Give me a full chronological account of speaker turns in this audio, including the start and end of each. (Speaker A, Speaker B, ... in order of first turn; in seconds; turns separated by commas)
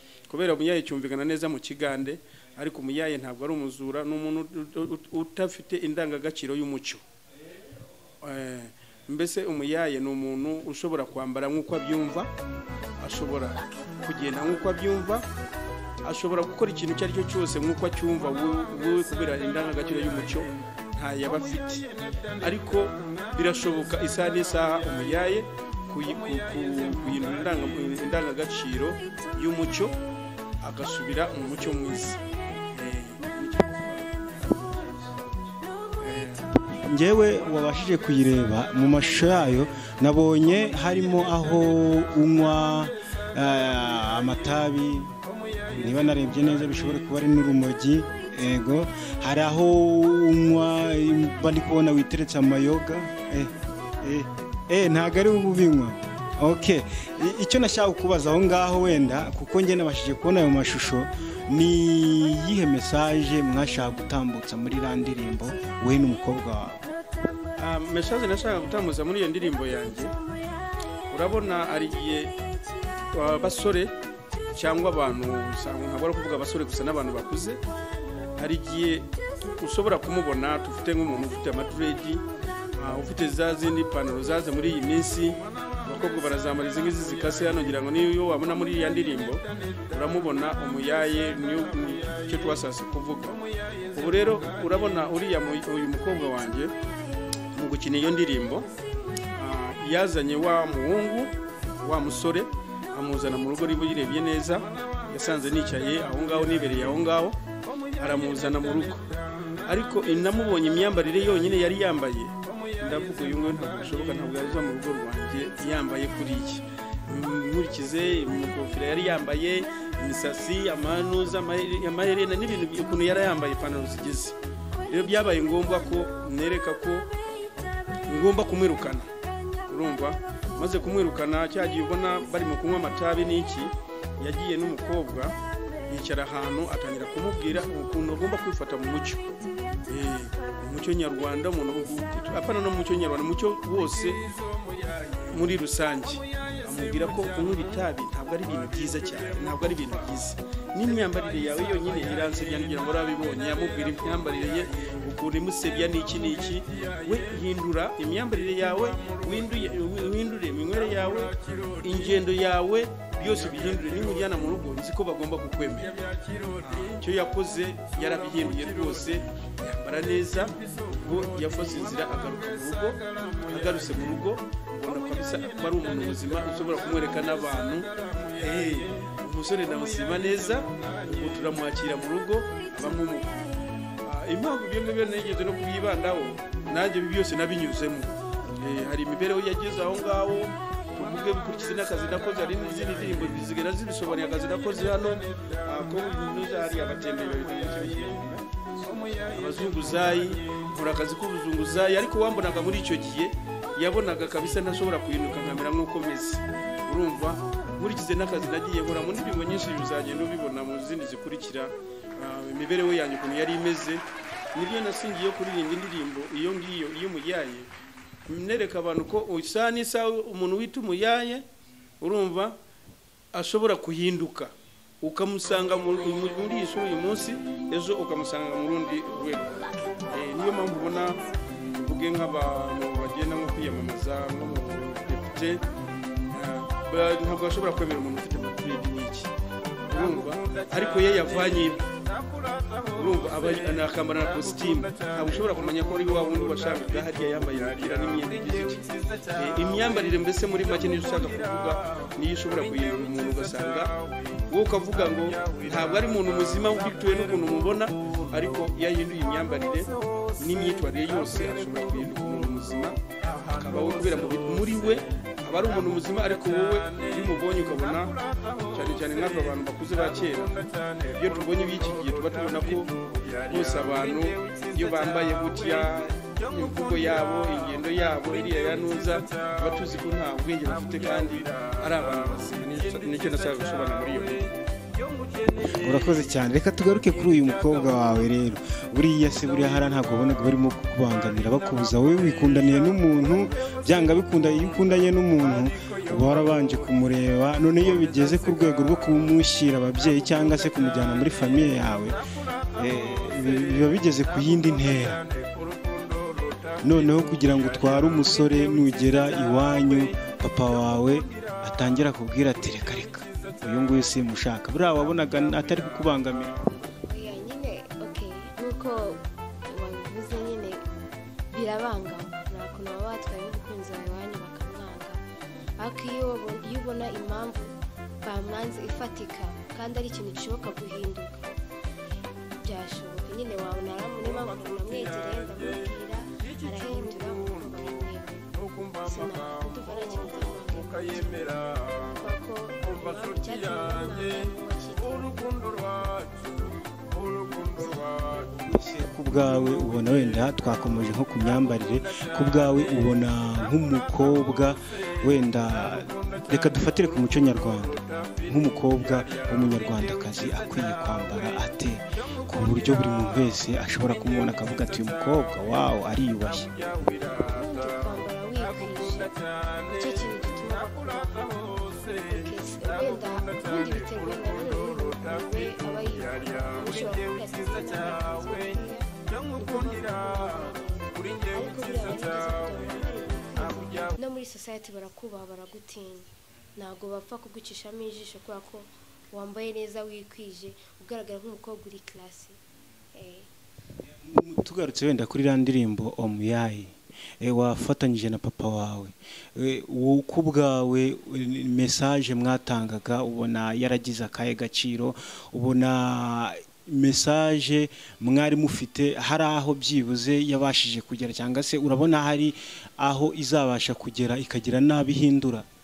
Speaker A: 0.3-7.0, Speaker A: 8.2-12.3, Speaker A: 13.0-15.3, Speaker A: 16.0-30.0, Speaker A: 30.6-32.2, Speaker A: 32.7-34.7, Speaker B: 34.8-35.3, Speaker A: 36.0-36.5, Speaker B: 36.7-45.1, Speaker B: 45.7-66.8, Speaker A: 67.6-70.2, Speaker A: 71.1-72.4, Speaker A: 73.1-74.0, Speaker A: 74.5-77.6, Speaker A: 78.4-82.2, Speaker A: 82.8-96.7, Speaker A: 97.5-98.7, Speaker A: 99.3-127.1, Speaker A: 128.1-129.1, Speaker A: 129.7-139.2, Speaker A: 139.9-144.3, Speaker A: 145.1-183.5, Speaker A: 184.0-198.5, Speaker A: 199.0-214.0, Speaker A: 214.6-217.7, Speaker A: 218.3-221.5, Speaker A: 222.0-222.6, Speaker A: 223.3-235.6, Speaker A: 236.3-239.3, Speaker A: 239.9-241.9, Speaker A: 242.7-284.5, Speaker B: 285.6-305.3, Speaker A: 305.4-306.8, Speaker B: 306.8-316.7, Speaker C: 317.0-320.8, Speaker C: 321.5-325.2, Speaker C: 325.8-327.7, Speaker C: 328.2-331.3, Speaker C: 332.6-345.9, Speaker A: 338.7-339.0, Speaker A: 341.5-342.1, Speaker A: 345.9-346.5, Speaker C: 347.5-348.2, Speaker B: 348.6-366.7, Speaker A: 366.7-367.6, Speaker C: 367.4-392.6, Speaker A: 371.6-371.9, Speaker A: 376.4-377.9, Speaker C: 393.1-393.5, Speaker B: 394.0-415.7